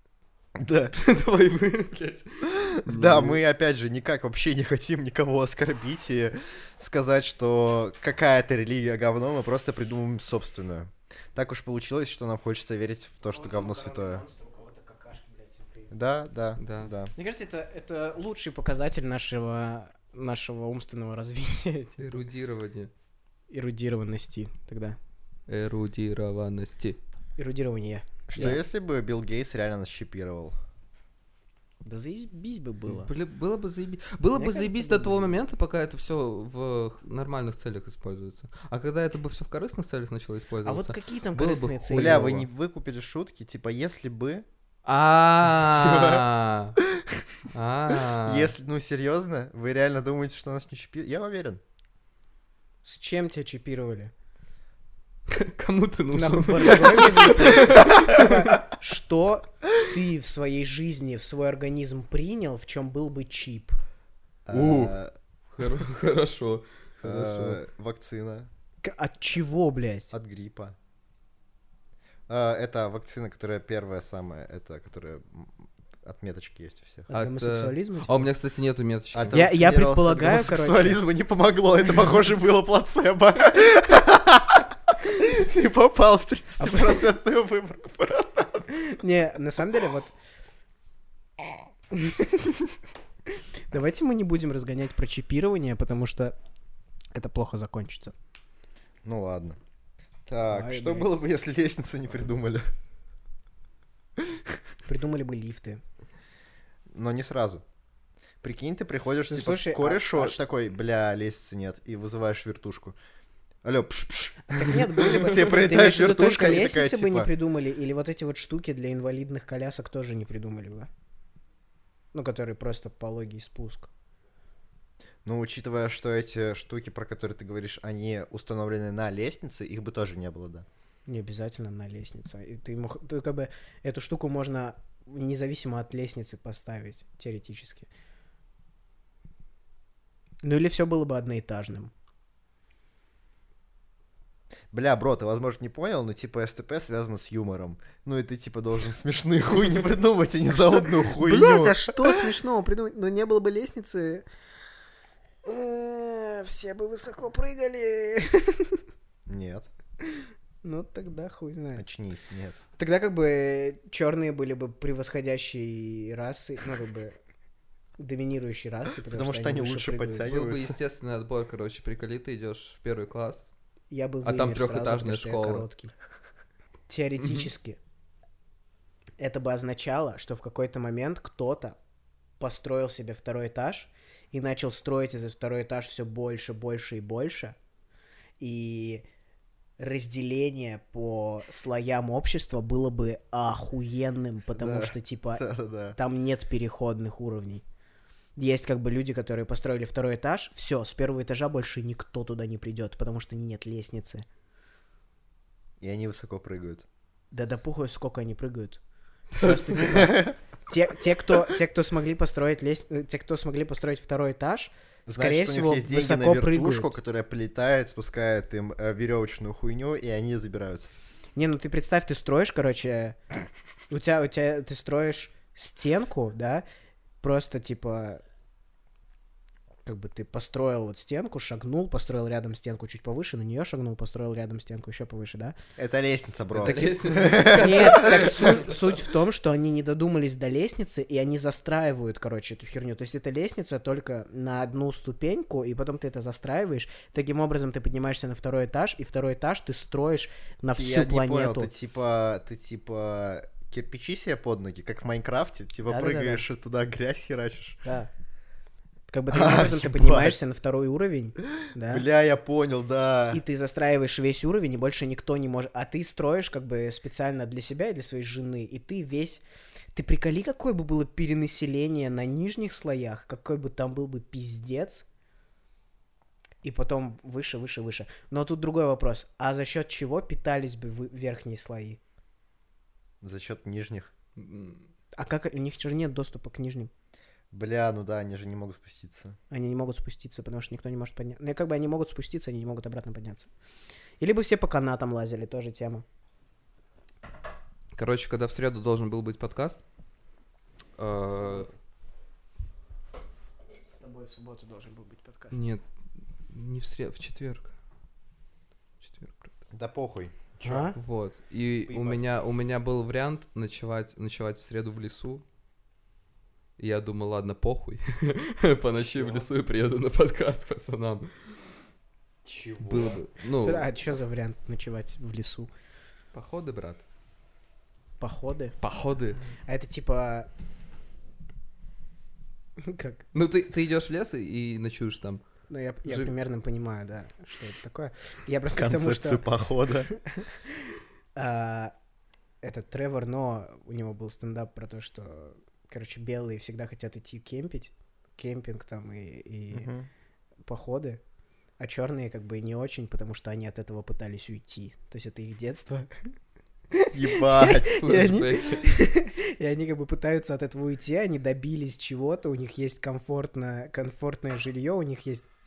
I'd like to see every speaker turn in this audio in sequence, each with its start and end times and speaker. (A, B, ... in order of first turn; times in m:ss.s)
0:00.6-0:01.0 A
0:00.9-0:03.4 B
0:02.9-0:14.3 A
0:13.5-0:15.9 C
0:15.9-0:17.1 A
0:16.6-0:16.9 B
0:17.2-0:22.2 C
0:22.0-0:22.9 B
0:23.5-0:25.0 C
0:25.5-0:27.0 B
0:27.4-0:28.6 C
0:28.3-0:30.6 A
0:31.8-0:33.1 C
0:32.9-0:42.5 B
0:34.4-0:35.4 C
0:40.6-0:42.2 C
0:41.9-0:44.4 A
0:44.8-0:46.8 B
0:45.4-0:46.2 A
0:47.0-0:47.2 A
0:47.5-0:48.5 B
0:48.2-0:51.6 A
0:52.8-0:54.1 C
0:55.3-0:58.6 B
0:56.1-1:03.8 C
1:04.5-1:05.1 A
1:04.5-1:05.0 B
1:05.5-1:06.6 B
1:07.0-1:07.6 C
1:07.0-1:08.5 A
1:08.8-1:10.1 C
1:10.1-1:10.8 A
1:12.3-1:17.1 A
1:17.1-1:18.3 C
1:17.1-1:19.4 B
1:19.1-1:28.7 A
1:19.3-1:21.0 C
1:26.6-1:27.0 C
1:28.7-1:30.1 C
1:31.9-1:32.6 C
1:33.7-1:36.4 C
1:37.2-1:38.1 C
1:39.0-1:39.6 A
1:40.3-1:42.6 A
1:40.5-1:41.1 C
1:44.9-1:45.8 C
1:46.9-1:47.6 A
1:48.4-1:53.0 A
1:49.3-1:50.4 C
1:53.6-1:57.3 A
1:54.5-2:00.9 C
2:02.1-2:03.9 C
2:05.2-2:10.6 A
2:11.1-2:17.9 C
2:20.4-2:21.9 C
2:24.7-2:32.2 A
2:30.6-2:34.2 C
2:35.4-2:38.8 C
2:39.3-2:39.7 A
2:40.1-2:41.8 C
2:41.8-2:42.6 A
2:42.8-2:47.2 C
2:48.0-2:50.3 C
2:49.1-2:50.8 A
2:50.3-2:53.5 B
2:53.9-2:55.9 C
2:54.2-2:55.7 B
2:56.9-2:57.8 C
2:57.2-2:57.5 B
2:59.2-3:01.8 C
3:02.4-3:07.6 C
3:08.4-3:09.0 C
3:09.8-3:17.6 C
3:14.5-3:16.0 A
3:18.4-3:24.2 C
3:25.8-3:26.8 A
3:27.3-3:28.8 C
3:29.3-3:36.9 C
3:29.8-3:30.4 A
3:35.1-3:40.9 A
3:41.4-3:43.2 C
3:43.9-3:46.6 C
3:47.2-3:48.2 C
3:49.9-3:55.6 C
3:55.8-3:58.3 A
3:56.5-3:58.9 B
3:57.4-4:11.7 C
4:10.7-4:17.8 A
4:15.8-4:16.4 C
4:19.1-4:22.0 C
4:19.3-4:20.5 A
4:21.9-4:23.4 A
4:23.3-4:29.4 C
4:30.0-4:35.0 C
4:36.6-4:42.0 C
4:43.2-4:44.1 A
4:44.4-4:44.8 B
4:45.2-4:46.9 C
4:47.5-4:49.4 A
4:49.5-4:53.5 C
4:54.2-4:56.0 C
4:57.9-4:59.8 B
5:01.0-5:01.7 B
5:04.0-5:05.7 C
5:05.5-5:05.8 B
5:06.5-5:07.7 B
5:09.0-5:09.5 B
5:09.7-5:10.9 A
5:10.6-5:11.0 C
5:11.0-5:15.4 B
5:11.9-5:12.2 A
5:16.8-5:21.6 B
5:19.0-5:19.5 A
5:22.4-5:23.2 A
5:22.8-5:23.9 B
5:23.6-5:25.7 C
5:26.3-5:27.0 B
5:28.2-5:28.7 C
5:28.8-5:29.4 B
5:29.7-5:30.5 C
5:32.8-5:33.2 C
5:33.3-5:35.4 B
5:35.7-5:39.4 C
5:36.1-5:36.3 B
5:38.7-5:40.1 A
5:40.1-5:40.8 C
5:41.4-5:41.9 C
5:42.6-5:49.9 C
5:49.7-5:50.1 A
5:50.7-5:51.2 C
5:51.8-5:56.1 C
5:56.9-6:05.5 C
5:57.1-5:58.1 A
5:57.8-5:58.9 B